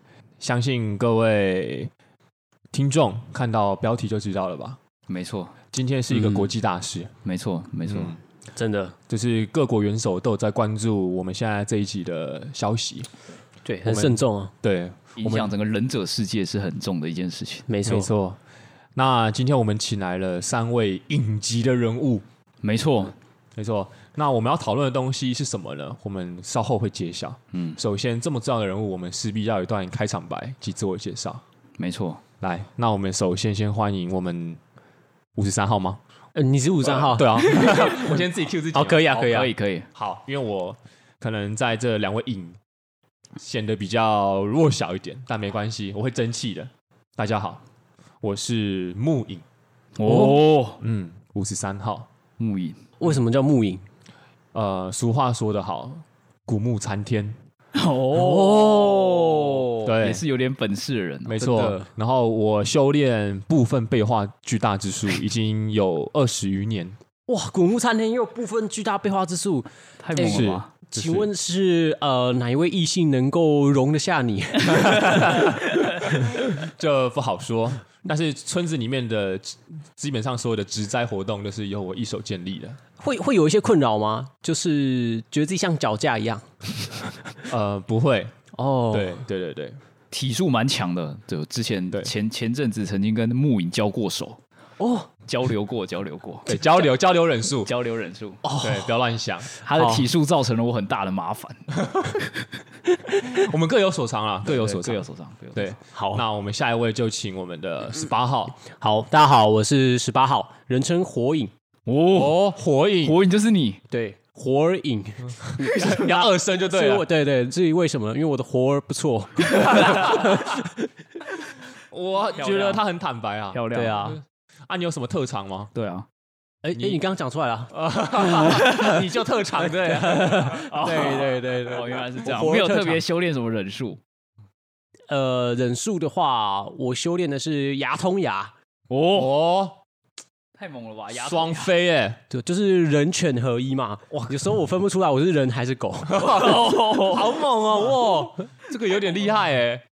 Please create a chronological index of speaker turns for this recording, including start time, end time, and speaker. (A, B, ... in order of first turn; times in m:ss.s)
0:00.4-0:01.9 A
0:02.7-0:04.8 A
0:05.1-0:05.5 B
0:05.7-0:07.1 A
0:07.2-0:08.2 B
0:07.9-0:08.2 A
0:08.5-0:09.0 C
0:09.1-0:13.1 A
0:13.6-0:14.5 C
0:13.8-0:15.5 A
0:15.2-0:17.7 B
0:17.7-0:18.1 C
0:17.8-0:18.4 A
0:19.0-0:22.2 A
0:22.6-0:23.2 B
0:23.6-0:31.4 A
0:27.5-0:27.8 B
0:31.8-0:32.2 B
0:32.4-0:34.6 A
0:35.4-0:36.0 A
0:36.3-0:39.5 C
0:36.8-0:42.6 A
0:39.1-0:39.9 B
0:43.4-0:47.6 A
0:48.2-0:49.4 A
0:50.0-0:50.8 B
0:50.1-0:52.1 A
0:52.4-0:52.8 B
0:53.0-0:53.8 C
0:54.5-0:57.4 A
0:57.7-1:01.7 B
0:58.1-0:59.9 C
0:59.8-1:00.2 A
1:01.2-1:07.0 A
1:01.4-1:01.9 C
1:07.3-1:15.5 C
1:10.0-1:10.7 B
1:10.2-1:11.3 A
1:14.9-1:22.8 A
1:23.0-1:27.3 C
1:27.5-1:28.3 A
1:28.5-1:29.2 C
1:28.9-1:29.8 A
1:30.1-1:34.4 B
1:34.8-1:35.1 C
1:35.2-1:36.9 B
1:36.4-1:37.7 A
1:37.6-1:38.4 B
1:38.4-1:38.9 C
1:38.6-1:39.5 A
1:39.6-1:41.7 B
1:39.7-1:40.1 C
1:41.8-1:42.1 A
1:43.1-1:48.6 A
1:44.4-1:45.8 B
1:45.9-1:46.2 C
1:48.7-1:51.5 C
1:51.9-1:52.5 B
1:52.1-1:53.2 A
1:53.0-1:53.8 B
1:53.9-2:00.8 C
1:55.6-1:57.0 A
1:55.7-1:56.2 B
1:59.7-2:00.1 B
1:59.8-2:00.3 A
2:01.9-2:03.6 A
2:02.2-2:02.8 B
2:03.5-2:04.2 B
2:03.7-2:04.2 C
2:04.7-2:05.7 A
2:05.7-2:06.1 B
2:06.6-2:13.0 C
2:07.7-2:10.6 A
2:08.4-2:09.1 B
2:09.9-2:14.0 B
2:15.1-2:18.5 C
2:18.9-2:19.4 B
2:19.1-2:19.8 A
2:20.6-2:21.7 B
2:21.2-2:22.2 A
2:22.3-2:26.4 C
2:26.2-2:27.4 B
2:26.2-2:29.8 A